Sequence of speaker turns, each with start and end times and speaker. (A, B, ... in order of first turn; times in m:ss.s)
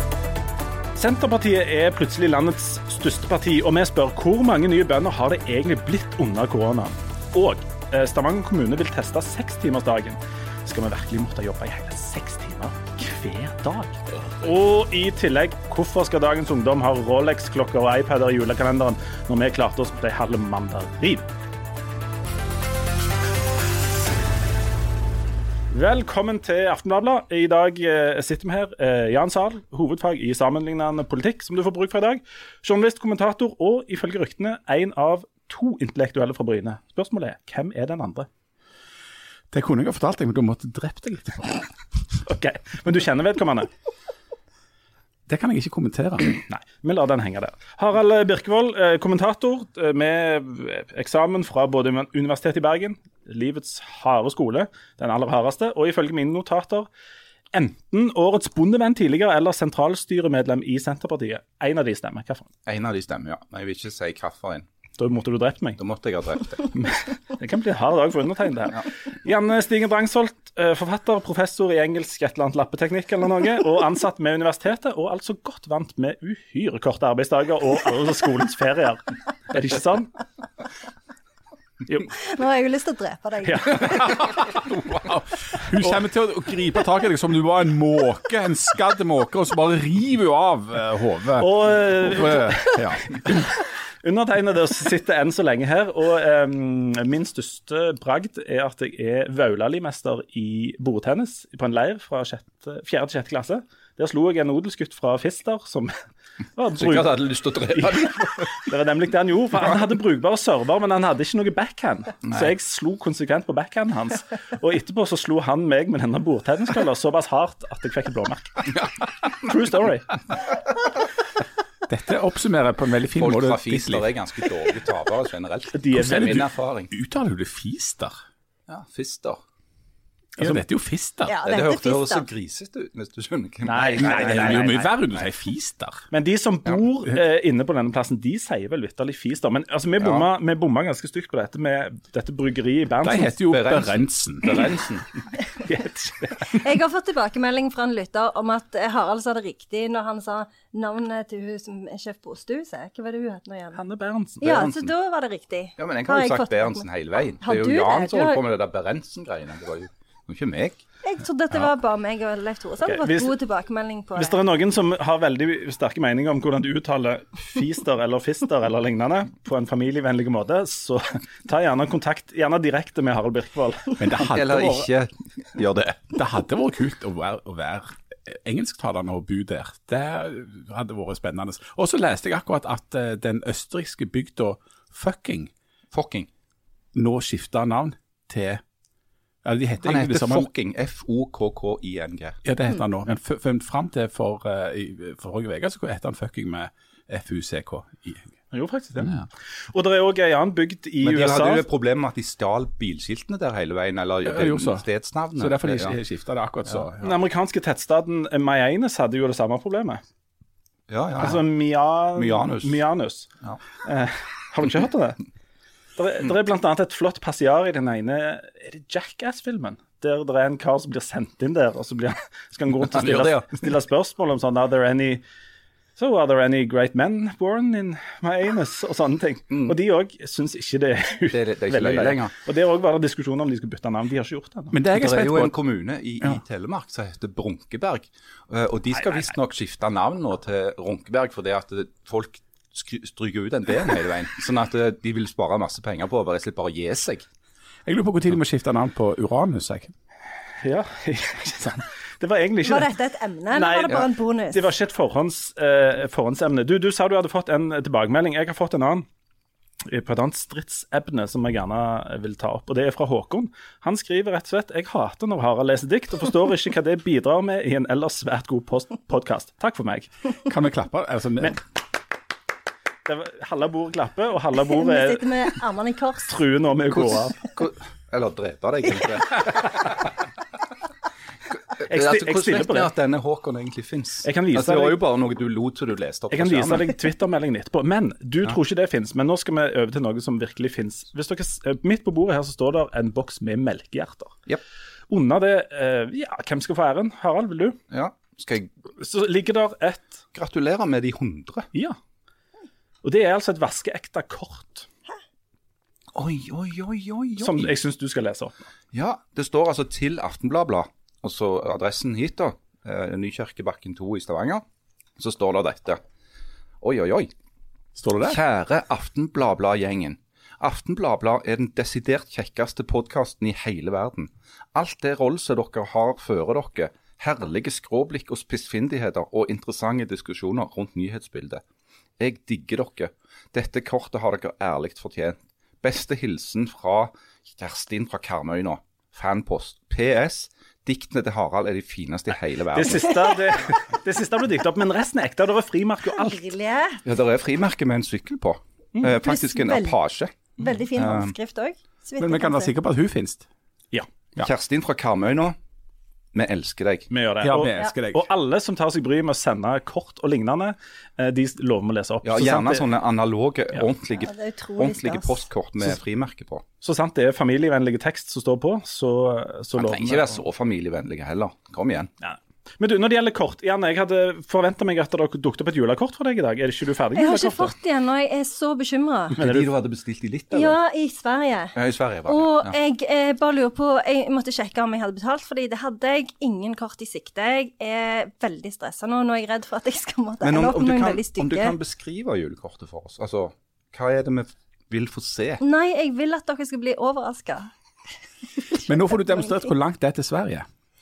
0:01.0-0:21.3 A
0:25.7-0:38.3 A
0:39.5-0:41.7 B
0:42.3-0:43.7 A
0:45.3-0:46.4 B
0:46.3-0:56.9 A
0:57.5-1:02.5 A
1:02.7-1:04.7 C
1:05.0-1:05.8 A
1:05.8-1:06.7 C
1:06.7-1:20.1 A
1:22.1-1:24.0 D
1:23.4-1:23.8 A
1:23.8-1:33.3 B
1:31.4-1:46.0 A
1:46.6-2:00.2 A
1:46.7-1:48.5 C
1:52.2-1:52.5 C
2:01.9-2:04.0 B
2:03.2-2:06.9 C
2:05.7-2:06.4 A
2:05.9-2:08.2 B
2:08.7-2:09.4 C
2:10.4-2:11.4 B
2:11.3-2:12.3 D
2:11.4-2:14.9 C
2:13.6-2:14.8 A
2:14.0-2:16.0 B
2:16.1-2:23.4 A
2:20.0-2:20.3 C
2:23.0-2:24.9 B
2:23.5-2:25.0 C
2:25.6-2:26.6 A
2:26.5-2:33.8 D
2:33.7-2:34.5 A
2:34.4-2:36.8 D
2:34.4-2:34.9 C
2:35.8-2:40.8 C
2:37.4-2:38.4 D
2:41.0-2:44.4 D
2:42.8-2:43.4 A
2:44.2-2:54.1 A
2:54.0-2:54.9 B
2:54.2-2:56.2 C
2:56.1-3:05.5 B
3:05.9-3:06.3 C
3:07.0-3:08.6 B
3:09.4-3:10.5 B
3:09.8-3:12.4 C
3:12.4-3:18.3 B
3:18.5-3:21.6 A
3:19.0-3:19.3 B
3:21.0-3:26.0 C
3:24.2-3:27.2 B
3:27.0-3:30.0 A
3:30.9-3:31.5 C
3:31.2-3:33.3 A
3:32.2-3:32.8 C
3:33.8-3:35.2 A
3:36.0-3:45.2 A
3:42.9-3:43.6 C
3:46.0-3:54.8 A
3:51.3-3:52.3 C
3:54.7-3:55.5 B
3:54.9-4:07.3 C
4:07.9-4:09.9 B
4:10.6-4:12.9 A
4:12.6-4:14.7 D
4:13.5-4:19.1 A
4:19.9-4:30.1 A
4:30.4-4:31.6 B
4:33.0-4:35.5 A
4:34.6-4:36.4 D
4:36.3-4:37.4 A
4:36.9-4:39.8 C
4:41.5-4:47.0 C
4:41.9-4:42.9 A
4:44.2-4:45.0 A
4:46.3-4:54.4 A
4:55.1-4:57.8 A
4:57.9-4:58.7 C
4:59.0-5:00.2 A
5:00.3-5:01.7 C
5:03.0-5:04.9 A
5:06.1-5:07.7 C
5:07.4-5:08.5 A
5:08.9-5:14.6 C
5:15.2-5:16.0 C
5:16.8-5:17.3 C
5:18.0-5:18.4 B
5:18.2-5:31.6 C
5:32.2-5:43.3 C
5:42.7-5:46.4 A
5:46.2-5:47.0 D
5:47.0-5:50.4 C
5:49.2-5:50.0 D
5:50.6-5:52.7 D
5:51.0-5:51.4 C
5:52.2-5:53.5 B
5:54.4-5:55.6 C
5:56.3-5:57.1 C
5:57.1-6:02.9 A
5:57.4-5:58.3 B
6:02.2-6:06.6 C
6:04.2-6:05.4 D
6:06.8-6:10.4 A
6:09.8-6:12.1 C
6:12.2-6:17.7 A
6:17.2-6:19.4 D
6:19.4-6:20.8 C
6:19.4-6:19.7 A
6:20.5-6:21.8 D
6:21.8-6:22.8 C
6:22.3-6:31.8 D
6:30.4-6:35.6 C
6:35.6-6:37.7 D
6:38.8-6:40.7 B